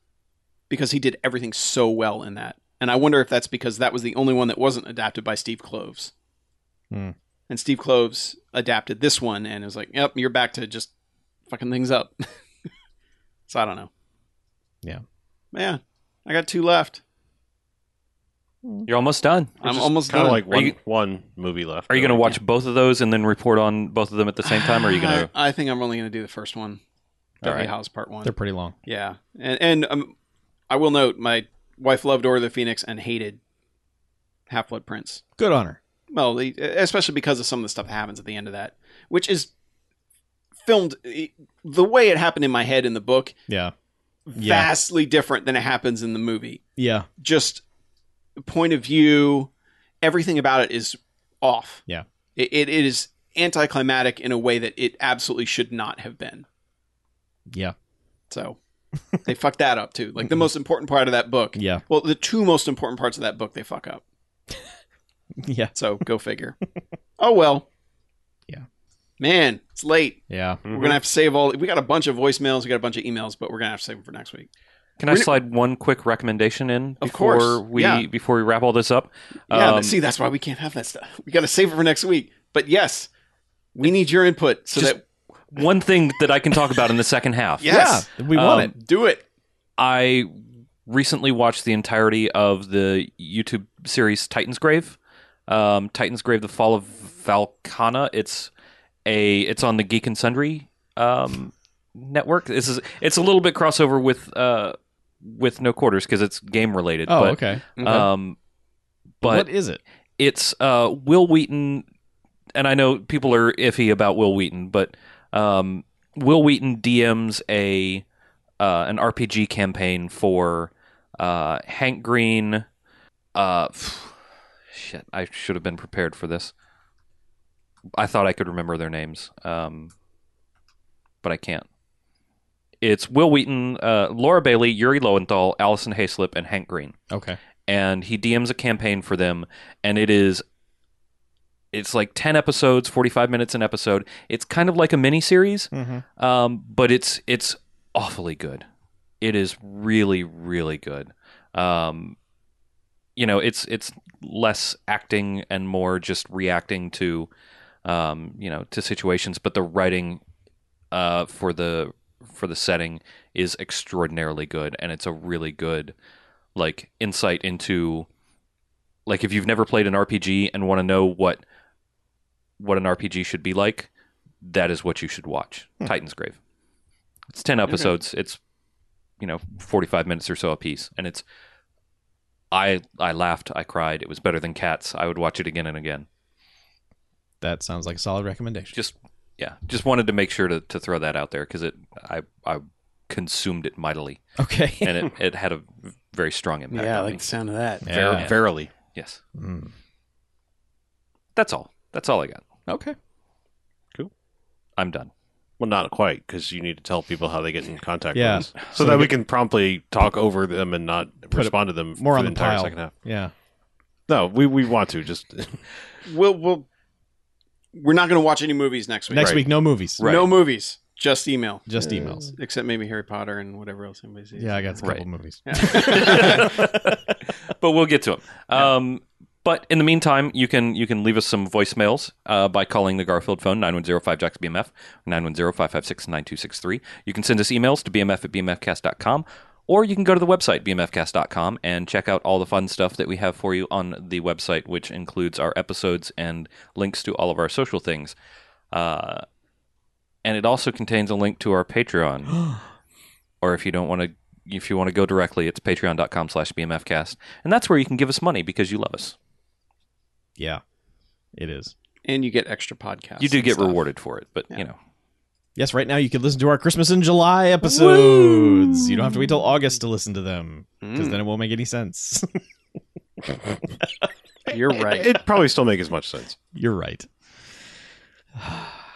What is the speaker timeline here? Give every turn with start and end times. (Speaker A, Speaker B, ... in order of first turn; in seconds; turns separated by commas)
Speaker A: 0.7-6.1, Speaker A: 7.5-10.9, Speaker A: 11.5-12.2, Speaker A: 13.5-13.9, Speaker A: 15.5-17.0, Speaker B: 18.9-19.9, Speaker A: 19.6-20.4, Speaker C: 20.1-22.4, Speaker B: 20.5-20.7, Speaker B: 21.9-25.3, Speaker A: 24.4-26.8, Speaker B: 27.4-27.7, Speaker A: 27.4-28.3, Speaker D: 28.2-28.7, Speaker A: 28.8-30.1, Speaker A: 30.7-33.4, Speaker A: 34.5-35.2, Speaker D: 35.4-35.8, Speaker A: 36.1-39.5, Speaker A: 40.6-43.4, Speaker A: 44.3-46.6, Speaker D: 44.3-44.7, Speaker D: 46.8-47.1, Speaker A: 47.2-47.6, Speaker A: 48.4-49.5, Speaker A: 50.0-51.8, Speaker A: 52.4-56.4, Speaker A: 58.3-58.6, Speaker A: 59.2-64.0, Speaker D: 61.5-61.8, Speaker D: 65.4-65.7, Speaker A: 65.7-66.5, Speaker A: 67.2-67.7, Speaker A: 69.2-74.5, Speaker D: 70.3-70.6, Speaker C: 70.6-71.0, Speaker B: 75.0-80.0, Speaker A: 77.0-78.0, Speaker A: 79.5-83.1, Speaker A: 83.7-85.0, Speaker B: 85.5-88.7, Speaker A: 87.6-89.2, Speaker D: 87.7-88.7, Speaker B: 89.8-90.3, Speaker B: 90.9-98.5, Speaker B: 99.0-108.4, Speaker D: 107.1-108.0, Speaker B: 109.2-109.5, Speaker D: 109.2-109.8, Speaker B: 110.2-111.8, Speaker B: 112.5-118.0, Speaker B: 118.6-122.6, Speaker B: 123.3-124.1, Speaker B: 124.7-126.5, Speaker B: 128.0-129.9, Speaker B: 131.2-131.7, Speaker B: 132.8-137.0, Speaker D: 137.1-137.4, Speaker B: 137.7-140.4, Speaker B: 141.7-148.6, Speaker D: 145.7-146.0, Speaker B: 149.2-152.2, Speaker B: 153.2-157.3, Speaker B: 157.8-160.2, Speaker B: 160.9-165.9, Speaker B: 166.6-168.1, Speaker B: 169.1-171.4, Speaker B: 172.6-173.9, Speaker B: 174.4-176.4, Speaker B: 177.3-178.4, Speaker B: 179.2-181.2, Speaker B: 182.5-186.1, Speaker D: 187.4-188.7, Speaker B: 188.7-194.2, Speaker D: 194.4-195.0, Speaker B: 194.8-197.2, Speaker A: 196.7-198.2, Speaker D: 197.8-198.3, Speaker C: 197.9-198.7, Speaker B: 198.2-199.2, Speaker D: 199.4-199.7, Speaker B: 201.3-202.4, Speaker D: 202.7-202.9, Speaker B: 204.8-205.1, Speaker C: 205.6-212.9, Speaker D: 208.1-209.1, Speaker D: 211.3-213.3, Speaker C: 214.1-215.6, Speaker A: 216.1-216.7, Speaker A: 217.7-221.7, Speaker D: 219.1-220.0, Speaker B: 220.0-220.3, Speaker D: 221.7-222.3, Speaker A: 222.2-224.8, Speaker D: 224.4-227.1, Speaker A: 225.4-226.6, Speaker B: 225.6-227.0, Speaker B: 227.6-248.1, Speaker B: 248.7-249.2, Speaker B: 250.2-252.5, Speaker B: 253.4-259.1, Speaker D: 261.4-261.7, Speaker A: 262.0-263.8, Speaker B: 263.2-264.8, Speaker D: 265.6-272.4, Speaker B: 267.6-269.2, Speaker A: 270.8-271.2, Speaker C: 274.5-276.4, Speaker A: 274.5-275.1, Speaker D: 276.5-277.1, Speaker D: 278.4-278.7